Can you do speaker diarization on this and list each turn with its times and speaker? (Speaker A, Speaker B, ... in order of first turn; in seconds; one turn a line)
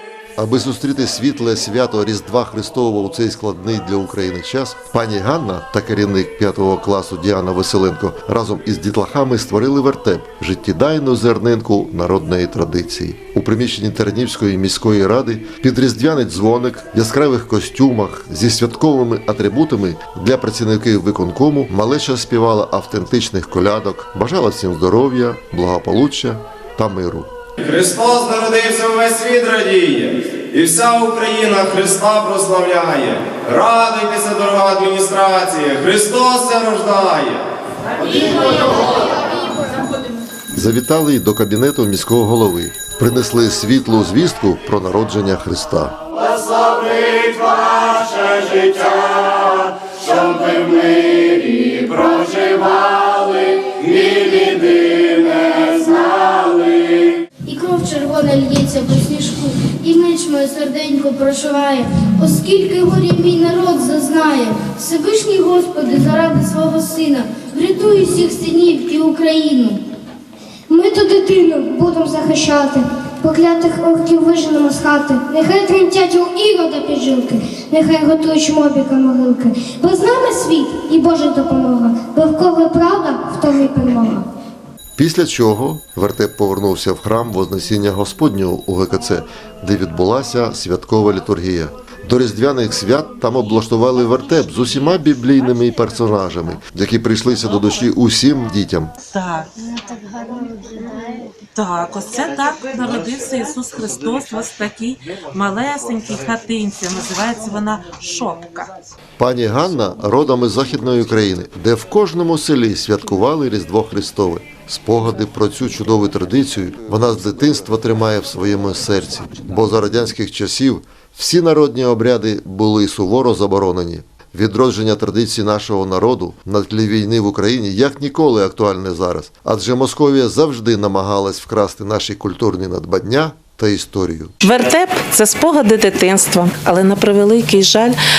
Speaker A: 0.4-27.3
Speaker B: 27.6-37.5
Speaker B: 38.0-38.9
Speaker A: 40.5-46.0
Speaker B: 47.0-47.5
Speaker B: 48.1-48.7
Speaker C: 50.1-53.1
Speaker C: 53.6-56.8
Speaker C: 57.5-69.8
Speaker D: 70.7-84.2
Speaker A: 85.0-98.9
Speaker E: 99.1-99.5
Speaker E: 101.5-108.7
Speaker A: 109.2-134.3
Speaker E: 134.4-138.0